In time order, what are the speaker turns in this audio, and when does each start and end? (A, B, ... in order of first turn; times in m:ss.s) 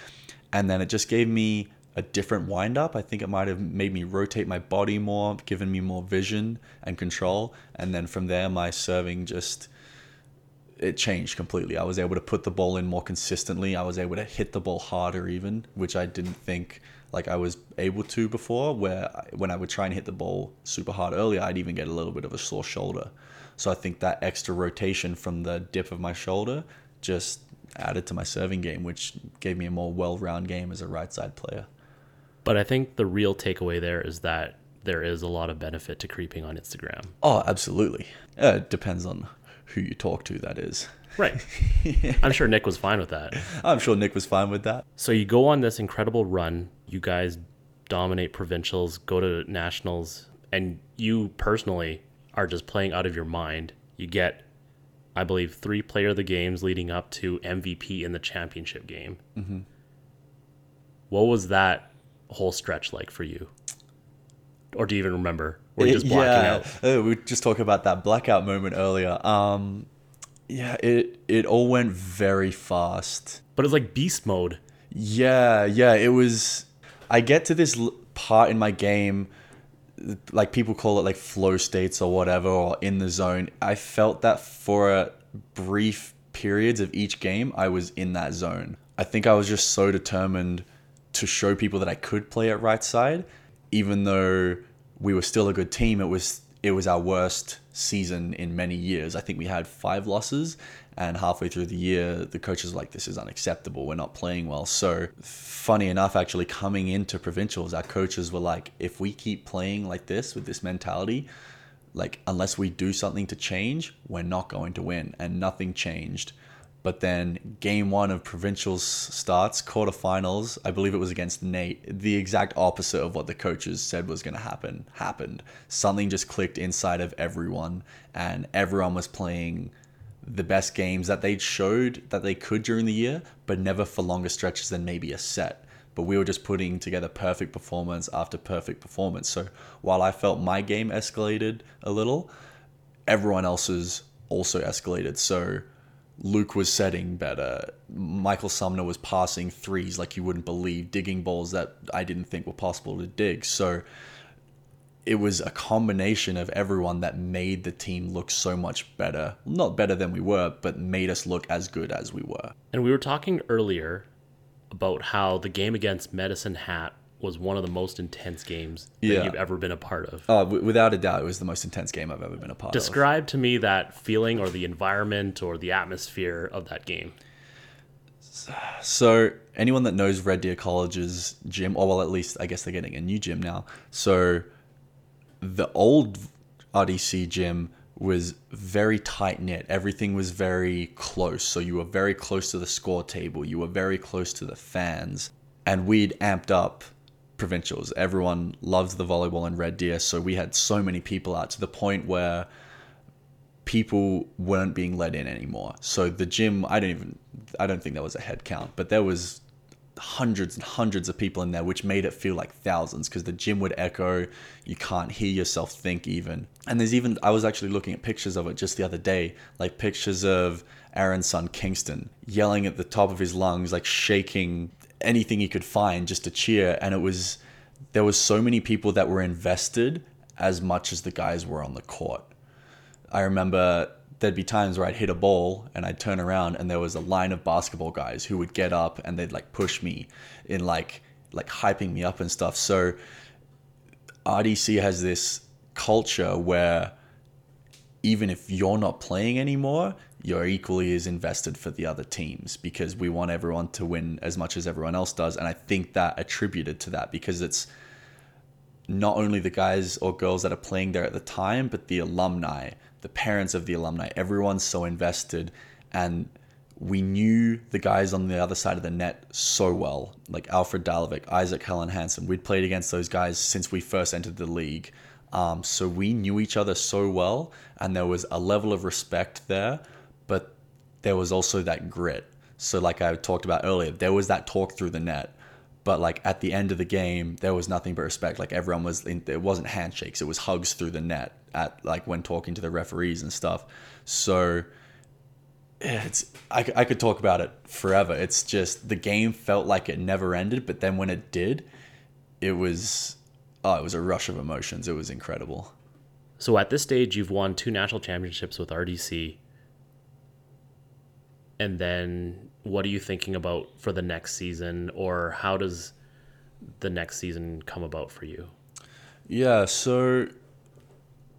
0:00.5-0:09.7 A
0:10.8-0:31.7 A
0:32.4-0:37.1 B
0:37.2-0:42.4 A
0:41.2-0:41.5 B
0:42.0-0:43.4 B
0:43.3-0:44.8 A
0:45.0-0:54.4 B
0:55.1-0:59.2 B
0:59.4-0:59.6 A
1:01.1-1:03.5 B
1:04.7-1:06.7 B
1:05.8-1:09.9 A
1:10.5-1:13.4 A
1:13.6-1:14.6 B
1:14.9-1:19.3 A
1:20.0-1:51.3 A
1:51.9-2:22.3 A
2:23.1-2:25.7 A
2:26.2-2:33.8 A
2:35.0-2:42.5 A
2:42.7-2:44.1 B
2:44.7-2:50.3 B
2:49.0-2:49.4 A
2:50.3-2:53.0 A
2:52.7-2:57.2 B
2:58.3-3:04.5 A
3:05.4-3:16.8 A
3:17.4-3:22.5 A
3:23.6-3:29.4 A
3:30.0-3:47.4 A
3:47.9-3:52.3 A
3:53.1-4:03.0 A
4:04.2-4:06.9 A
4:08.0-4:17.7 A
4:18.9-4:54.7 A
4:55.8-5:01.7 A
5:02.4-5:05.7 A
5:06.4-5:09.4 B
5:11.6-5:15.9 B
5:16.8-5:18.5 B
5:19.3-5:20.3 A